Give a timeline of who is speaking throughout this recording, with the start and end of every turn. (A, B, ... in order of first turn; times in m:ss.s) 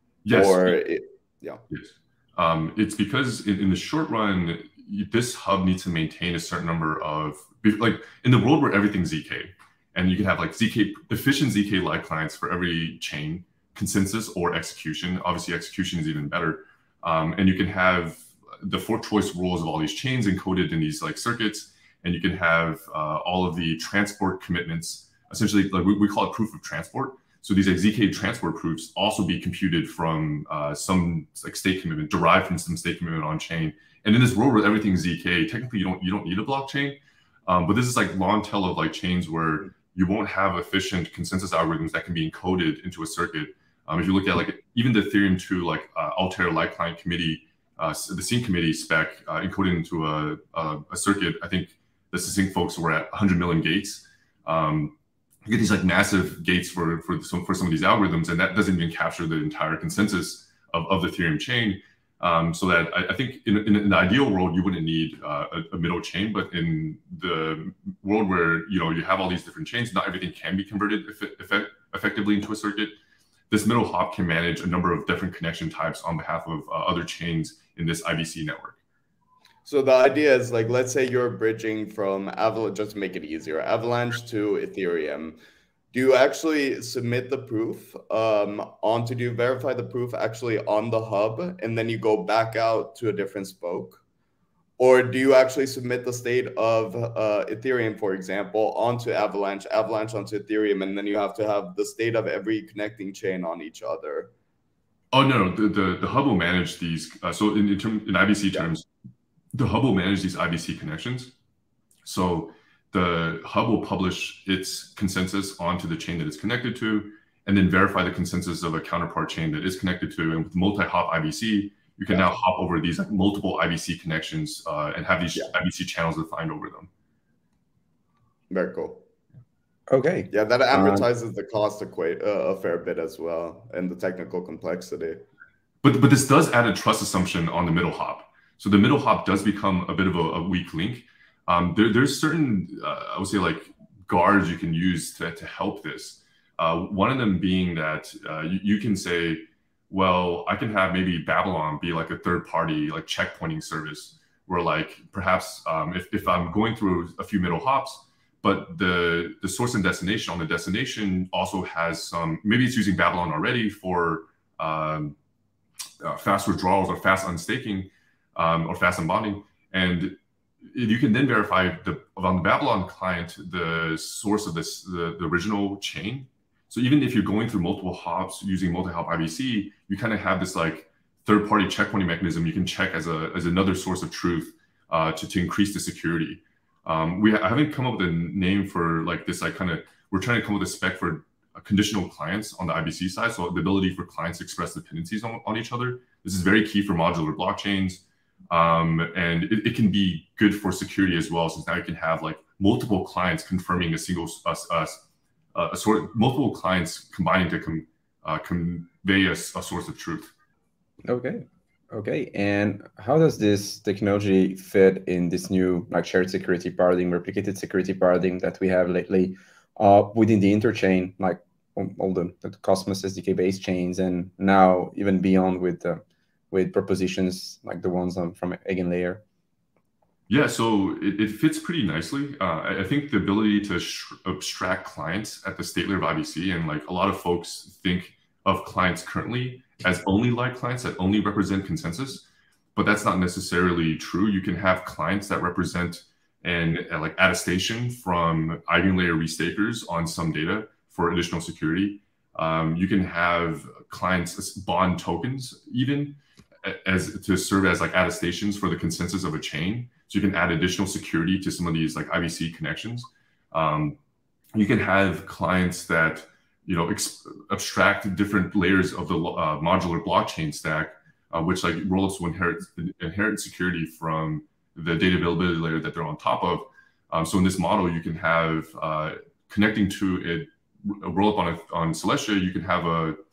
0:00.2-0:00.8 A
0:00.3-0:01.6 B
0:01.7-0:54.9 A
0:55.4-1:12.9 A
1:13.5-1:18.8 A
1:19.6-1:25.4 B
1:25.9-1:34.0 B
1:34.8-1:44.3 B
1:45.1-1:48.9 A
1:49.5-1:51.3 A
1:52.0-2:06.9 A
2:02.1-2:02.4 B
2:08.5-2:09.0 B
2:09.9-2:11.0 C
2:10.3-2:15.2 B
2:15.8-2:45.2 A
2:46.0-3:30.3 A
3:31.1-3:49.2 C
3:50.3-4:02.2 A
4:02.8-4:24.0 A
4:24.5-4:43.2 A